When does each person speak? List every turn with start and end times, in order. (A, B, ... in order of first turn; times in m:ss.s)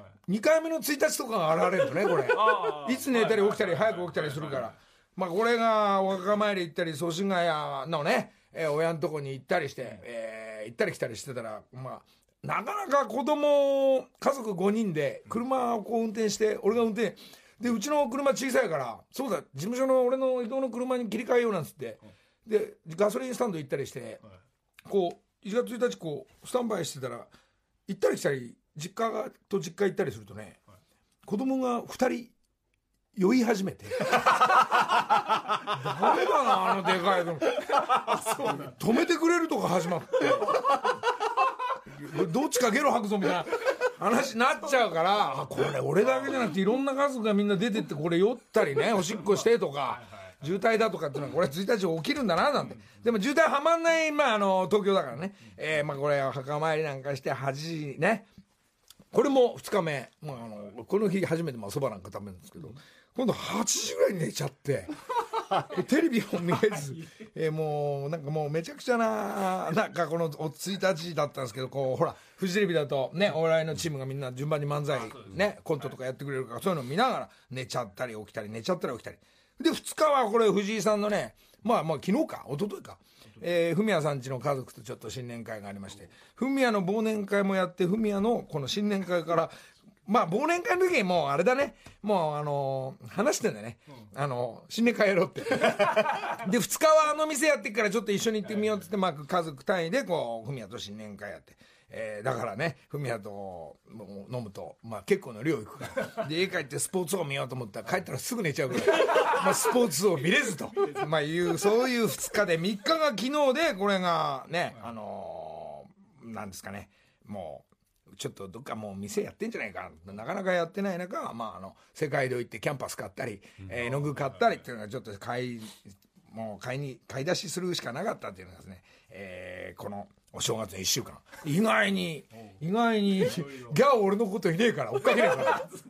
0:00.3-0:24.2 A
0:24.9-0:27.3 A
0:27.9-0:30.6 A
0:31.2-0:32.3 A
0:33.2-0:34.3 A
0:35.7-0:40.8 A
0:41.9-0:58.3 A
0:59.1-1:05.0 A
1:05.5-1:29.5 A
1:30.1-2:15.7 A